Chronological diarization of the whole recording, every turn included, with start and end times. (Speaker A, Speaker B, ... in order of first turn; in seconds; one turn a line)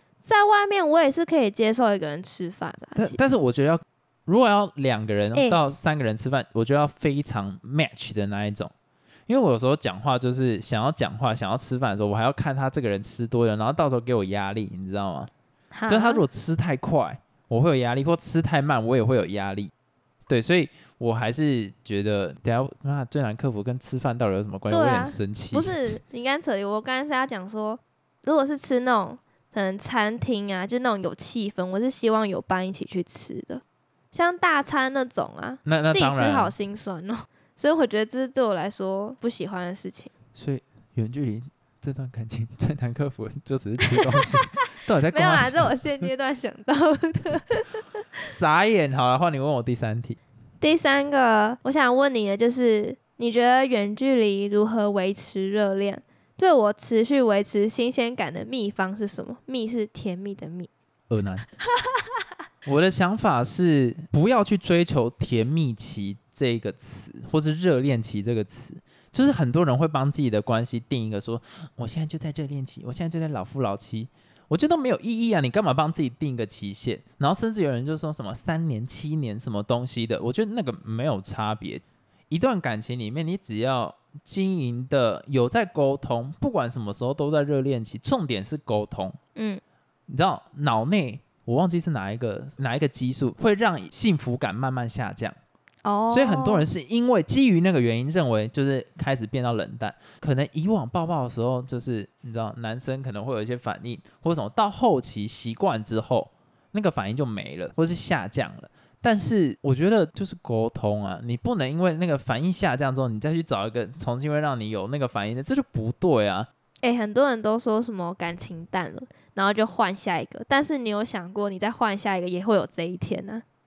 Speaker A: 0.2-3.4
Speaker B: 3.0-8.7
Speaker A: 5.3-5.6
Speaker B: 9.3-15.3
Speaker A: 15.7-16.2
Speaker B: 15.9-19.7
Speaker B: 20.3-26.0
Speaker A: 24.7-40.1
Speaker B: 35.6-36.5
Speaker B: 40.4-46.1
Speaker A: 45.1-47.8
Speaker B: 48.2-50.2
Speaker A: 50.6-60.7
Speaker B: 61.1-61.5
Speaker B: 62.7-89.2
Speaker A: 89.4-89.6
Speaker B: 90.1-95.4
Speaker A: 95.8-96.7
Speaker B: 96.1-116.5
Speaker A: 116.8-123.4